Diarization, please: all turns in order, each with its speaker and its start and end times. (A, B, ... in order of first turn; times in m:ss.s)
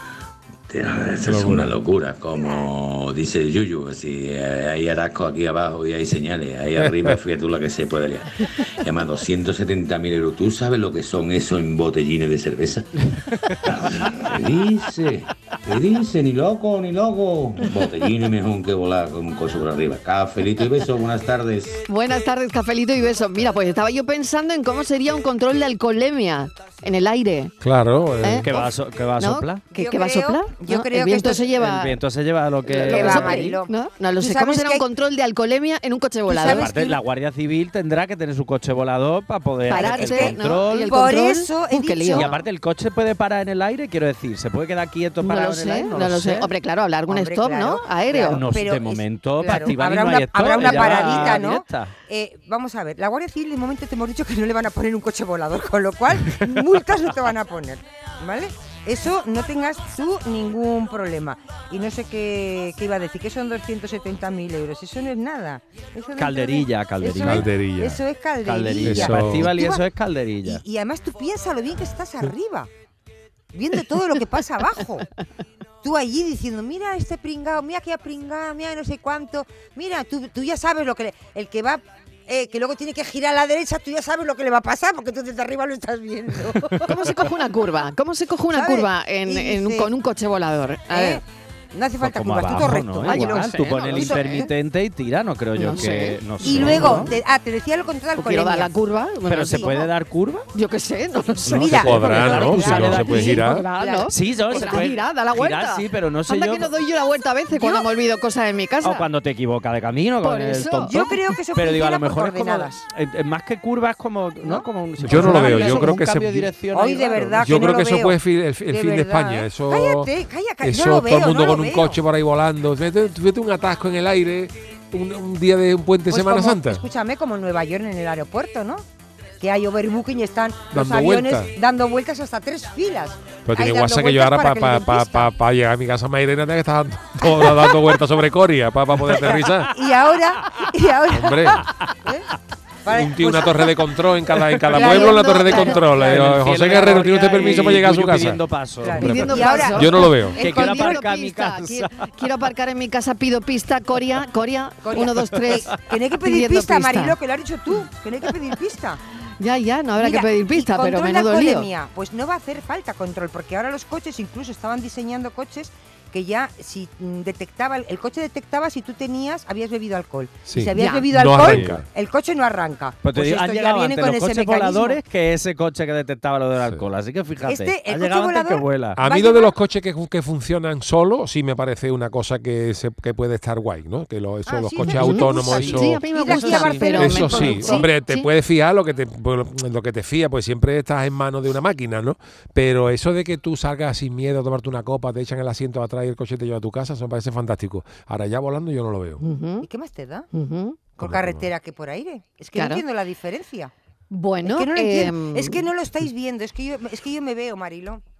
0:00.7-0:12.9 A
0:01.2-0:01.8 B
0:02.4-0:02.7 C
0:06.8-0:07.2 B
0:13.6-0:21.8 A
0:21.9-0:27.5 D
0:27.6-0:28.5 B
0:28.4-0:29.6 E
0:29.2-0:31.9 D
0:29.7-0:31.5 C
0:31.6-0:33.5 E
0:32.7-0:36.7 D
0:32.7-0:34.8 C
0:36.3-0:37.0 C
0:36.4-0:41.1 E
0:39.7-0:42.3 D
0:39.7-0:42.4 C
0:42.1-0:46.5 E
0:45.2-0:48.4 D
0:47.1-1:09.8 C
0:48.3-0:51.9 E
0:50.7-0:51.3 D
1:06.2-1:07.5 E
1:07.2-1:08.0 B
1:08.4-1:10.6 E
1:08.8-1:09.5 B
1:10.4-1:12.7 C
1:13.5-1:15.0 C
1:15.8-1:26.9 C
1:26.8-1:31.2 D
1:28.5-1:29.9 C
1:30.9-1:34.5 C
1:32.0-1:37.1 E
1:33.0-1:34.5 D
1:35.6-1:37.0 D
1:36.4-1:38.7 C
1:38.2-1:39.9 D
1:39.3-1:40.4 E
1:40.5-1:41.8 D
1:41.4-1:45.0 C
1:41.5-1:43.6 B
1:41.6-1:43.5 E
1:42.9-1:49.0 D
1:44.1-1:46.7 E
1:47.5-1:47.8 C
1:48.8-1:57.7 E
1:50.2-1:51.1 D
1:50.9-1:52.8 C
1:54.4-1:55.8 C
1:55.0-1:56.5 B
1:56.7-2:02.0 C
1:57.4-2:00.1 B
2:00.6-2:06.8 B
2:06.1-2:08.8 C
2:09.4-2:15.3 C
2:10.7-2:11.5 B
2:13.4-2:19.7 B
2:19.2-2:22.3 C
2:21.1-2:21.6 B
2:22.8-2:23.7 C
2:22.9-2:28.4 B
2:24.7-2:26.0 C
2:24.8-2:25.8 D
2:25.8-2:29.7 E
2:28.8-2:31.0 C
2:29.0-2:30.4 B
2:29.0-2:37.2 D
2:30.4-2:32.1 E
2:34.8-2:39.0 C
2:39.4-2:41.7 D
2:40.0-2:55.0 C
2:50.5-2:51.8 B
2:50.8-2:51.1 D
2:51.4-2:51.8 E
2:53.0-2:59.0 E
2:57.4-2:59.5 C
2:59.0-3:06.0 B
3:04.4-3:07.9 C
3:04.8-3:08.3 D
3:05.5-3:07.5 E
3:06.9-3:19.2 B
3:19.2-3:19.6 D
3:19.6-3:20.3 C
3:20.3-3:20.8 D
3:21.0-3:23.7 C
3:21.0-3:21.5 B
3:22.5-3:22.8 D
3:24.1-3:25.6 D
3:24.4-3:28.0 C